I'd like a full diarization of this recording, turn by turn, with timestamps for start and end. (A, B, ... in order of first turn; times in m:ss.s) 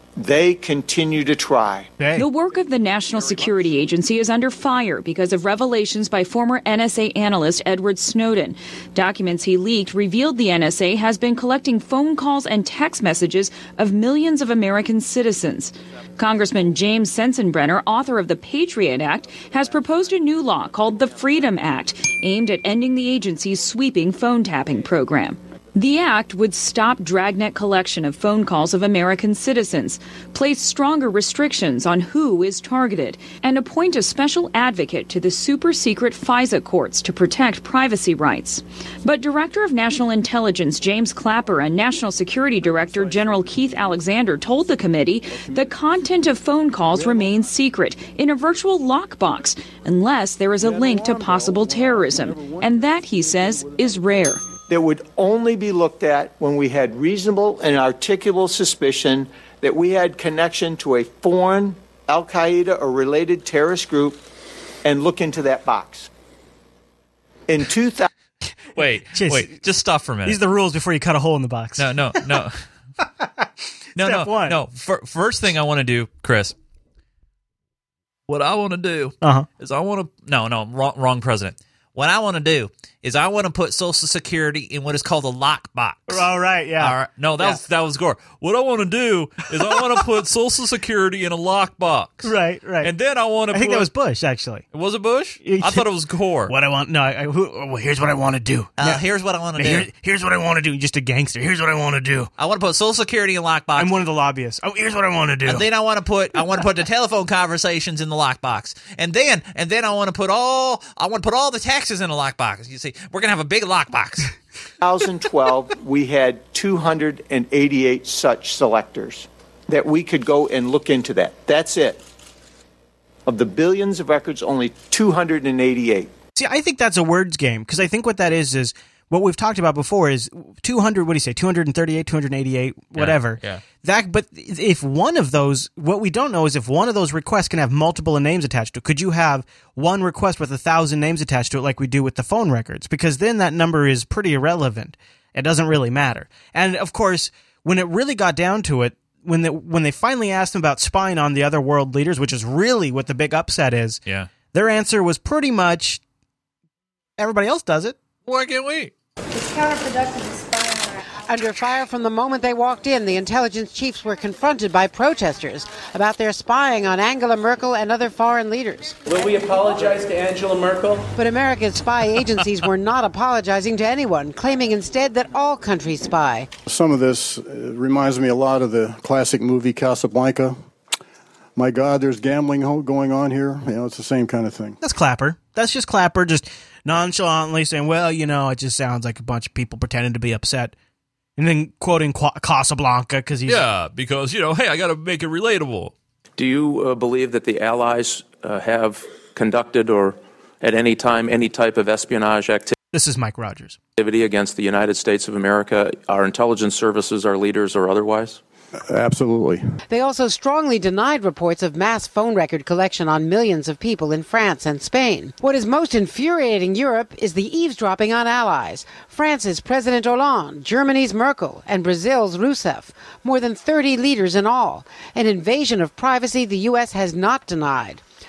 0:00.2-0:01.9 A
0:02.0-0:02.3 B
0:02.2-0:54.5 C
0:54.7-1:04.2 A
1:04.8-1:06.1 A
1:07.5-1:08.1 A
1:08.8-1:10.4 D
1:09.1-1:09.6 B
1:10.2-1:12.0 B
1:11.8-1:12.6 D
1:14.0-1:16.5 D
1:14.0-1:14.6 B
1:18.3-1:26.3 D
1:19.2-1:19.5 B
1:26.1-1:27.6 B
1:26.8-1:33.9 D
1:32.2-1:32.9 B
1:33.5-1:34.6 B
1:34.7-1:36.5 D
1:35.4-1:35.9 B
1:36.5-1:39.0 B
1:38.8-1:39.9 D
1:39.6-1:42.3 B
1:42.4-1:44.0 D
1:43.8-1:45.6 B
1:45.5-1:54.3 D
1:54.8-2:02.0 A
2:03.3-2:06.1 A
2:06.4-2:34.0 B
2:13.0-2:13.6 D
2:34.5-2:36.0 B
2:37.2-2:38.0 B
2:38.3-2:38.9 D
2:39.4-2:40.1 E
2:41.3-2:49.1 E
2:51.1-2:56.5 E
2:56.7-3:00.6 F
3:01.6-3:04.8 F
3:04.8-3:10.7 B
3:11.4-3:13.6 B
3:13.5-3:15.9 D
3:16.4-3:22.8 G
3:22.9-3:23.8 B
3:24.0-3:28.4 G
3:28.9-3:29.6 F
3:29.9-3:48.0 E